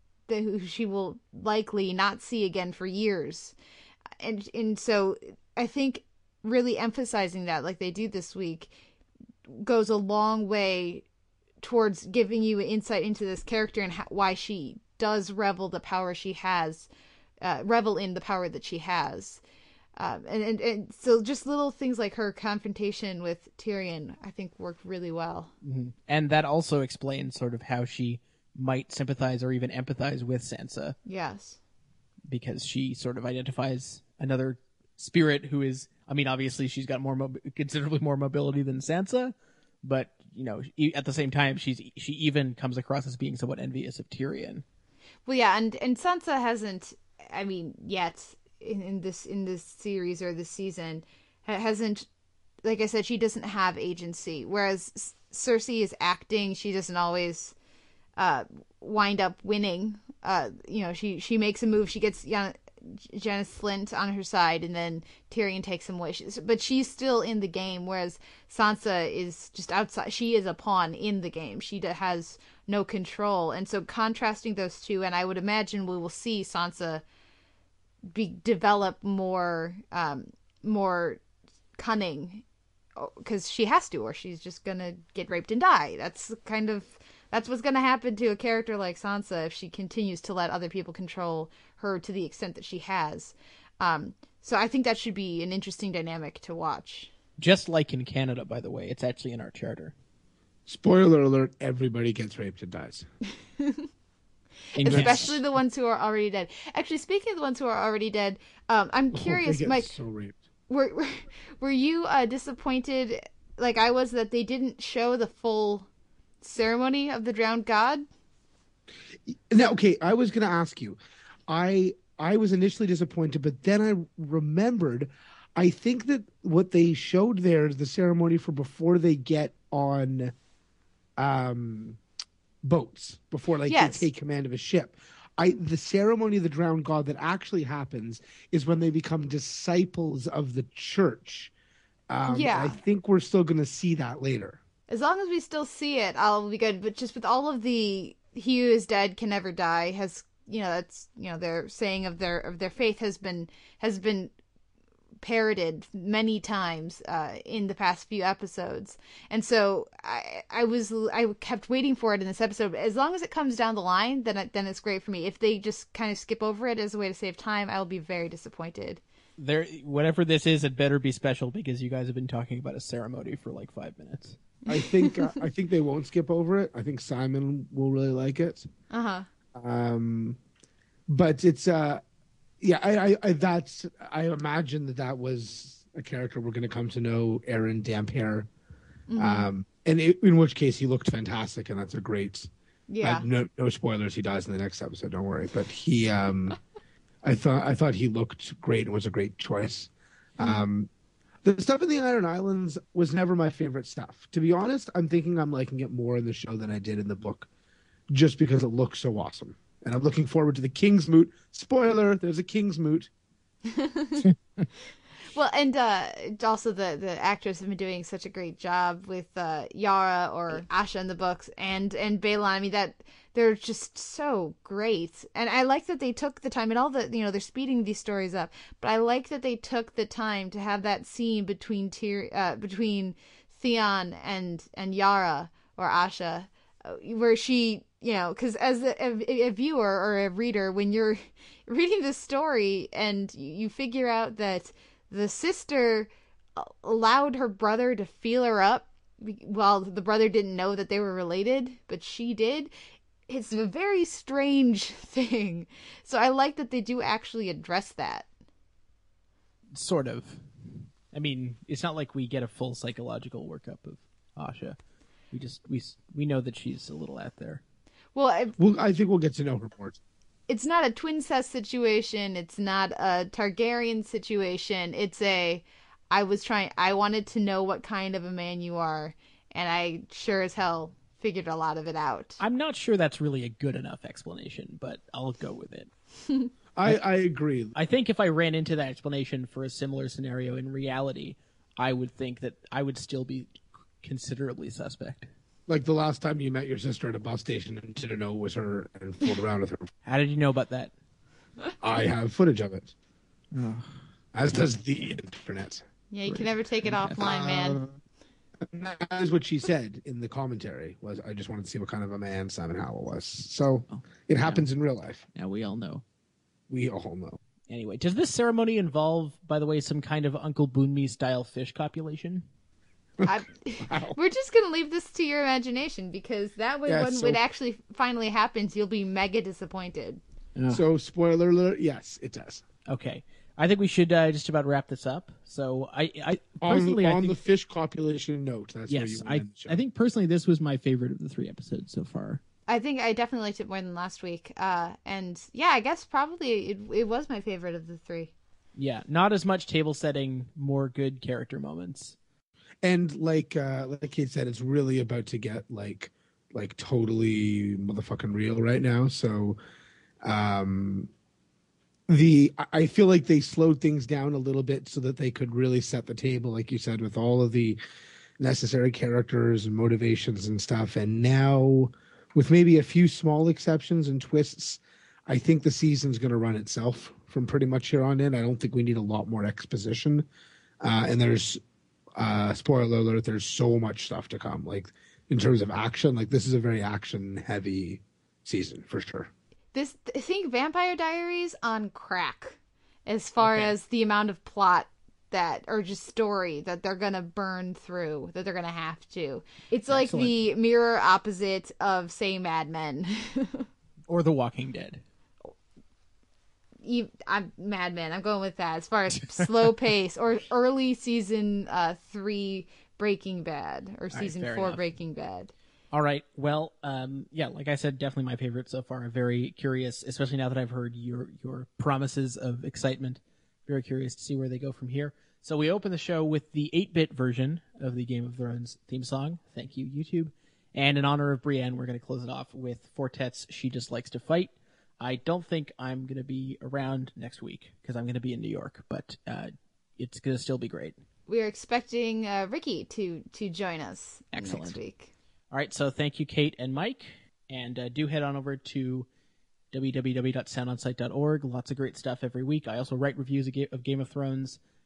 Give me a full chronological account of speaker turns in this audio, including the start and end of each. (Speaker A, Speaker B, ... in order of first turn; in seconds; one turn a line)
Speaker A: 0.3-3.6
Speaker A: 4.2-8.7
Speaker A: 9.5-11.1
Speaker A: 11.6-16.9
Speaker A: 17.4-19.4
Speaker A: 20.0-25.5
Speaker B: 25.6-31.0
Speaker A: 31.1-31.6
Speaker B: 32.3-44.6
Speaker A: 45.3-52.1
Speaker A: 52.6-57.5
Speaker A: 58.2-77.0
Speaker A: 78.1-81.2
Speaker A: 81.8-82.4
Speaker A: 83.0-97.1
Speaker B: 97.4-99.9
Speaker C: 100.7-103.1
Speaker A: 103.6-103.9
Speaker B: 104.8-105.4
Speaker A: 104.8-110.0
Speaker C: 104.8-105.3
Speaker C: 109.1-110.4
Speaker A: 110.7-115.9
Speaker A: 116.4-118.1
Speaker C: 119.3-130.3
Speaker C: 131.2-132.0
Speaker C: 132.6-141.5
Speaker A: 133.7-134.1
Speaker C: 142.1-144.6
Speaker A: 142.3-142.8
Speaker A: 144.9-154.3
Speaker A: 155.2-169.0
Speaker B: 169.4-174.4
Speaker A: 174.7-175.4
Speaker C: 174.7-178.7
Speaker A: 178.9-179.3
Speaker C: 179.6-180.4
Speaker C: 181.1-182.0
Speaker C: 182.6-188.5
Speaker A: 189.1-189.5
Speaker C: 189.2-192.5
Speaker A: 192.9-193.2
Speaker C: 193.0-196.6
Speaker C: 197.2-200.9
Speaker A: 200.4-200.7
Speaker C: 201.4-207.5
Speaker C: 208.1-213.1
Speaker A: 213.7-214.2
Speaker B: 214.2-214.7
Speaker A: 215.2-252.7
Speaker A: 253.3-258.3
Speaker B: 259.8-260.4
Speaker B: 261.1-264.8
Speaker B: 265.3-267.6
Speaker A: 268.1-268.6
Speaker C: 268.6-270.0
Speaker A: 270.5-282.4
Speaker B: 282.4-285.9
Speaker C: 286.8-287.7
Speaker B: 287.8-295.3
Speaker C: 295.7-299.9
Speaker B: 300.1-300.9
Speaker C: 301.8-302.9
Speaker B: 303.5-304.0
Speaker C: 304.3-305.9
Speaker A: 306.1-307.8
Speaker B: 306.3-307.2
Speaker C: 307.2-307.8
Speaker C: 308.6-315.2
Speaker B: 313.9-314.7
Speaker B: 315.4-316.0
Speaker C: 316.7-317.4
Speaker B: 317.7-322.5
Speaker C: 323.2-324.2
Speaker A: 323.3-330.2
Speaker C: 326.9-327.4
Speaker B: 330.6-330.8
Speaker C: 330.7-332.6
Speaker B: 332.9-337.4
Speaker C: 336.6-339.8
Speaker B: 338.9-342.4
Speaker A: 342.7-348.3
Speaker B: 348.8-352.2
Speaker C: 352.8-359.6
Speaker C: 360.2-361.1
Speaker C: 362.1-367.8
Speaker C: 368.4-380.3
Speaker C: 380.8-381.6
Speaker C: 382.2-389.3
Speaker A: 389.7-403.7
Speaker B: 393.4-393.7
Speaker B: 399.9-400.3
Speaker B: 404.1-405.0
Speaker A: 406.8-415.5
Speaker B: 414.1-414.8
Speaker B: 415.9-441.0
Speaker A: 441.3-445.1
Speaker B: 444.3-444.8
Speaker B: 445.5-449.1
Speaker B: 449.7-454.6